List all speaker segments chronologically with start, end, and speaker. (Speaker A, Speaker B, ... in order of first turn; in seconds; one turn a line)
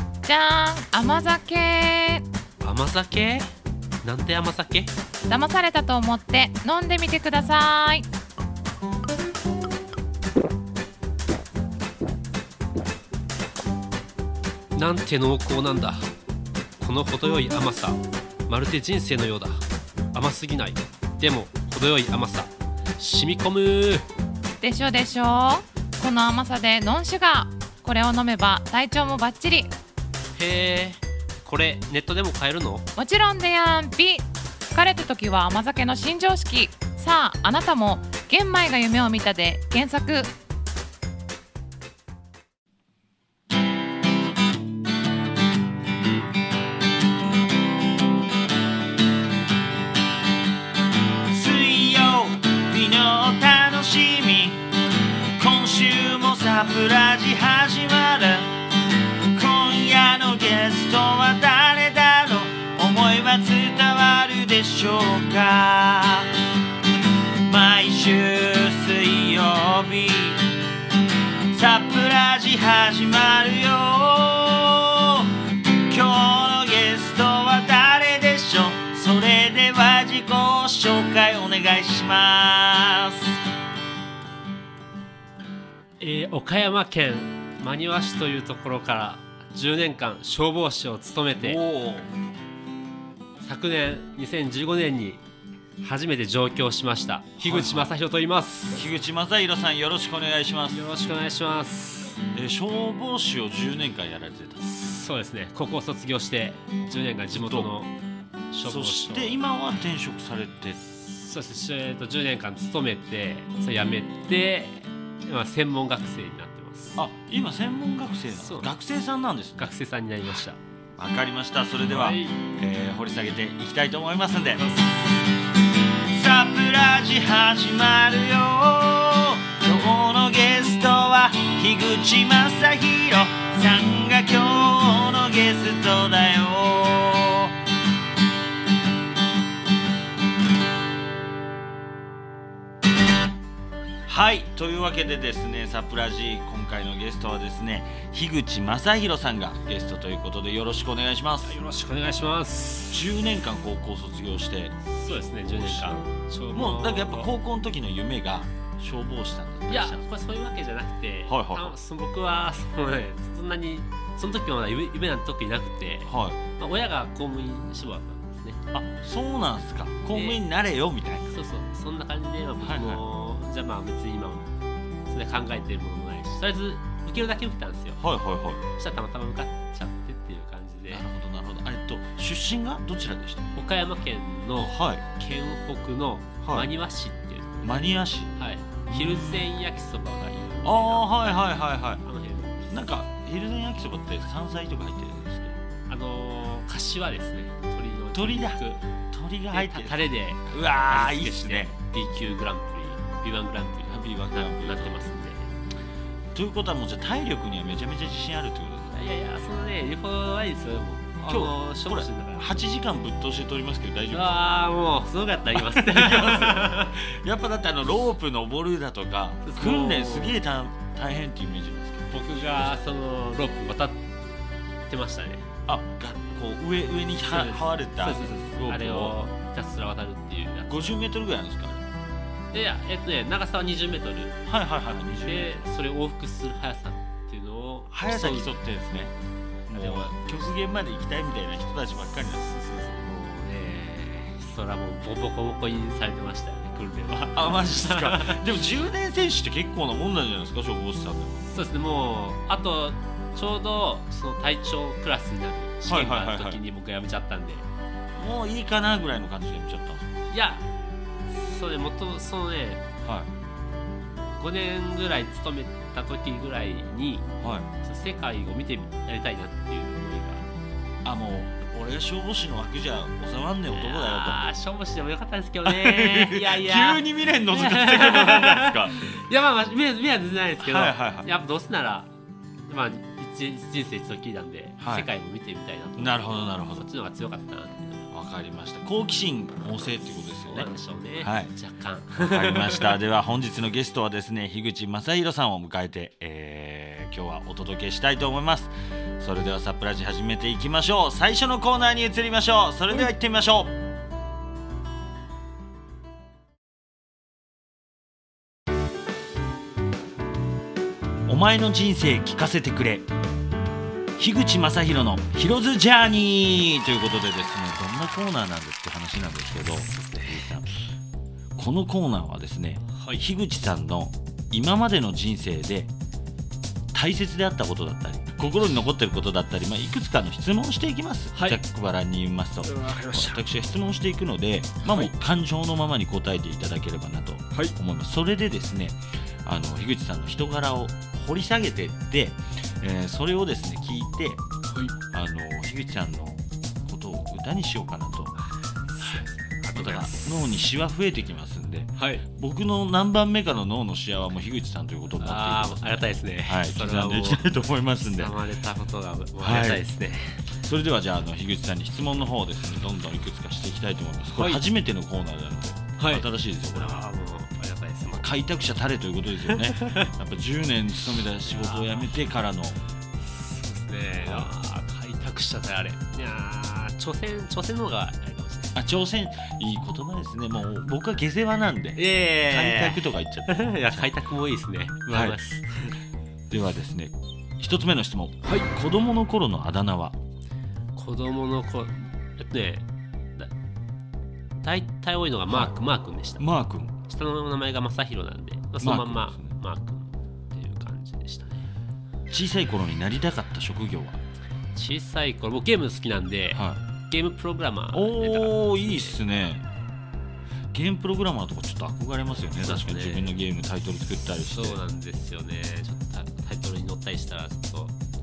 Speaker A: 0.2-2.2
Speaker B: 2.6-3.5
Speaker B: 4.0-4.9
Speaker A: 5.3-8.0
Speaker B: 14.7-16.1
Speaker B: 16.8-19.6
Speaker B: 20.1-24.1
Speaker A: 24.6-29.7
Speaker B: 30.3-32.8
Speaker A: 33.0-40.3
Speaker C: 51.3-54.6
Speaker C: 55.4-58.5
Speaker C: 59.3-66.3
Speaker C: 67.5-70.5
Speaker C: 71.5-83.4
Speaker B: 86.0-91.6
Speaker C: 91.4-92.1
Speaker B: 93.4-95.2
Speaker B: 95.8-98.8
Speaker C: 97.4-97.9
Speaker C: 98.7-100.8
Speaker B: 100.7-102.2
Speaker C: 102.3-104.7
Speaker B: 104.6-107.9
Speaker C: 107.3-107.7
Speaker B: 108.5-109.4
Speaker C: 108.6-110.8
Speaker B: 110.9-117.0
Speaker C: 117.0-119.7
Speaker B: 118.3-118.7
Speaker B: 119.6-120.6
Speaker C: 121.0-124.7
Speaker B: 121.8-122.4
Speaker C: 126.1-137.6
Speaker C: 144.1-151.6
Speaker B: 151.4-153.0
Speaker C: 152.9-154.8
Speaker B: 154.9-157.3
Speaker C: 155.4-160.0
Speaker B: 159.7-168.6
Speaker C: 161.3-161.7
Speaker C: 166.1-166.4
Speaker C: 168.7-171.4
Speaker B: 170.1-170.4
Speaker B: 171.3-174.5
Speaker C: 172.6-173.0
Speaker B: 175.1-178.0
Speaker C: 178.0-178.6
Speaker B: 178.8-181.1
Speaker C: 180.9-183.6
Speaker B: 183.5-187.7
Speaker C: 184.6-185.0
Speaker C: 186.4-186.7
Speaker C: 187.6-188.3
Speaker B: 188.3-191.1
Speaker C: 188.9-189.5
Speaker C: 190.6-192.0
Speaker B: 192.0-192.9
Speaker C: 192.7-195.6
Speaker B: 195.9-198.8
Speaker C: 198.1-201.8
Speaker B: 199.5-205.5
Speaker C: 203.9-205.1
Speaker C: 206.3-209.0
Speaker B: 208.9-212.5
Speaker C: 211.2-214.4
Speaker B: 214.1-216.9
Speaker C: 215.5-222.8
Speaker B: 219.4-220.4
Speaker B: 222.1-224.0
Speaker B: 224.9-225.5
Speaker C: 225.7-229.2
Speaker B: 227.2-231.0
Speaker C: 230.7-231.8
Speaker B: 232.5-234.4
Speaker C: 234.4-235.8
Speaker B: 235.0-238.5
Speaker C: 237.9-239.1
Speaker B: 239.7-240.5
Speaker C: 239.7-242.7
Speaker B: 242.5-248.4
Speaker C: 247.3-251.4
Speaker B: 251.5-257.7
Speaker C: 255.8-256.6
Speaker C: 258.1-260.1
Speaker B: 260.3-260.6
Speaker B: 261.3-262.8
Speaker C: 263.0-263.3
Speaker B: 264.4-267.3
Speaker C: 267.4-267.7
Speaker B: 267.8-270.5
Speaker C: 271.0-274.4
Speaker B: 273.7-282.1
Speaker C: 275.6-279.0
Speaker C: 280.6-281.3
Speaker B: 282.7-288.1
Speaker C: 284.8-285.1
Speaker C: 286.0-286.9
Speaker C: 288.1-291.5
Speaker B: 290.1-293.0
Speaker C: 292.2-303.7
Speaker C: 311.3-313.1
Speaker C: 314.2-320.7
Speaker B: 319.9-320.5
Speaker C: 321.6-325.9
Speaker B: 322.9-323.2
Speaker C: 326.9-344.4
Speaker B: 331.3-331.6
Speaker B: 332.6-333.4
Speaker B: 334.8-335.1
Speaker B: 344.7-344.9
Speaker C: 345.1-348.4
Speaker B: 348.9-350.5
Speaker C: 349.0-358.4
Speaker B: 352.0-352.2
Speaker B: 355.2-360.5
Speaker C: 359.4-359.8
Speaker C: 360.5-367.0
Speaker B: 364.4-364.6
Speaker B: 366.0-368.3
Speaker C: 368.1-372.8
Speaker B: 369.4-370.1
Speaker B: 371.4-372.1
Speaker B: 373.2-378.8
Speaker C: 374.2-374.5
Speaker C: 378.7-384.1
Speaker B: 381.9-386.0
Speaker C: 385.1-385.4
Speaker C: 386.5-390.2
Speaker B: 390.9-392.8
Speaker B: 394.6-396.4
Speaker C: 395.5-395.7
Speaker C: 396.4-396.9
Speaker B: 397.0-401.7
Speaker C: 398.8-399.5
Speaker C: 402.3-404.2
Speaker B: 404.7-409.2
Speaker C: 406.5-406.8
Speaker C: 407.9-409.6
Speaker C: 410.7-414.8
Speaker B: 412.6-413.3
Speaker B: 414.4-418.0